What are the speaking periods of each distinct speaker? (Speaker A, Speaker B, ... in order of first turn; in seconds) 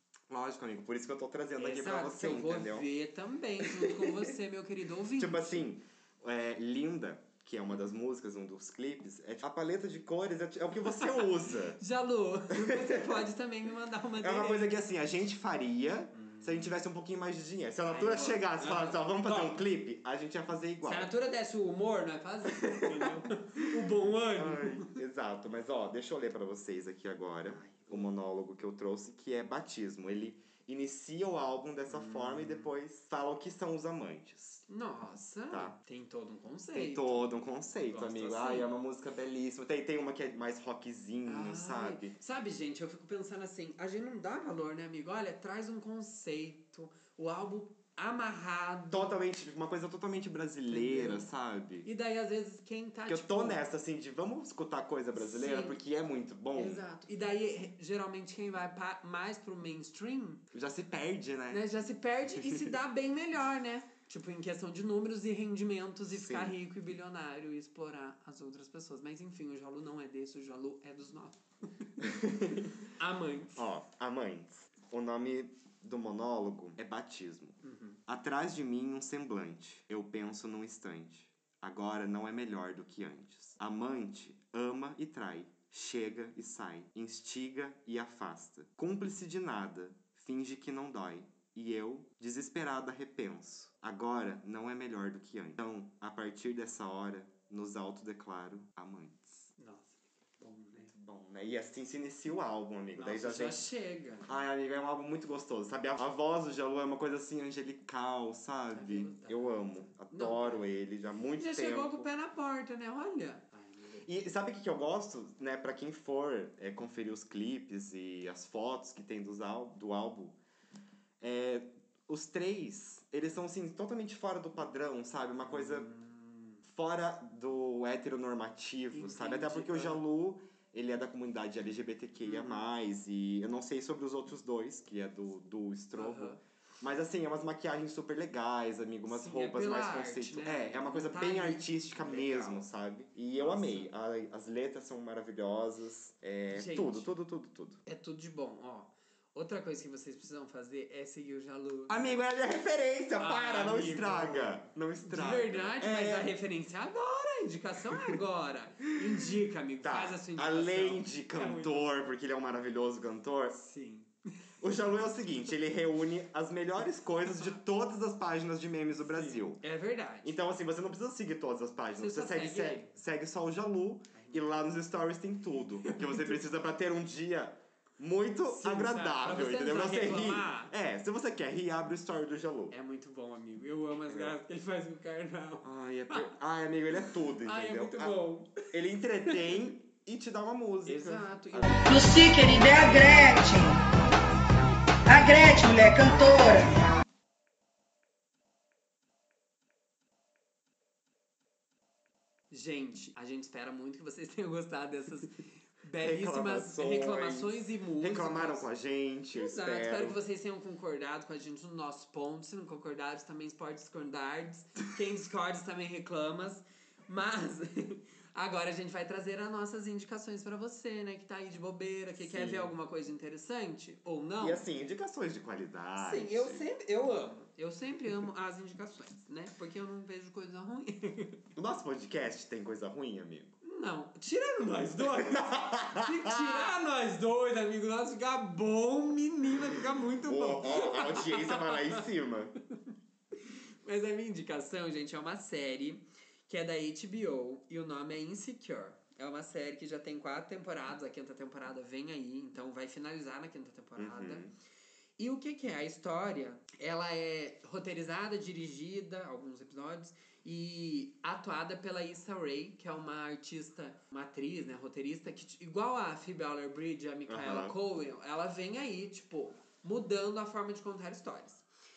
Speaker A: 0.3-2.9, 3.6-4.3, 5.2-11.8, 12.5-13.3, 14.2-21.1, 22.5-34.6, 35.5-35.8, 36.7-42.1, 48.9-51.9, 53.1-56.8, 60.5-61.7, 62.4-62.7, 66.1-66.6, 72.0-72.8, 73.6-99.5, 100.9-103.6, 104.3-112.1, 114.0-120.4, 121.2-125.9, 126.6-147.8, 151.9-156.3, 157.9-158.2, 159.8-163.6, 164.6-169.6, 170.2-182.8, 184.1-184.4, 185.6-191.8, 206.0-210.2, 222.2-222.8, 224.4-226.7, 231.6-233.6, 235.0-236.7, 240.2-242.6, 254.0-254.5, 267.3-267.8
Speaker B: 1.6-5.7, 11.8-14.8, 16.1-16.7, 17.9-19.6, 20.8-25.0, 27.5-28.1, 31.9-32.7, 34.7-38.7, 41.3-49.1, 50.7-51.3, 51.8-53.6, 55.2-55.8, 56.5-60.5, 61.5-72.0, 72.8-73.6, 77.6-78.0, 99.6-100.9, 103.0-104.3, 108.7-110.7, 111.4-114.1, 125.5-126.6, 128.9-130.0, 132.2-132.6, 135.9-136.4, 139.1-142.7, 143.4-143.9, 146.5-147.1, 147.9-152.2, 153.2-161.9, 163.5-164.9, 167.3-167.5, 169.1-170.3, 172.0-172.9, 174.1-174.5, 175.8-176.4, 178.5-180.7, 182.7-186.3, 187.4-188.7, 189.3-189.5, 190.9-192.0, 202.5-208.7, 209.3-224.7, 226.0-231.4, 233.6-242.0, 243.4-254.5, 255.2-271.6
Speaker C: 191.9-193.8, 195.1-196.7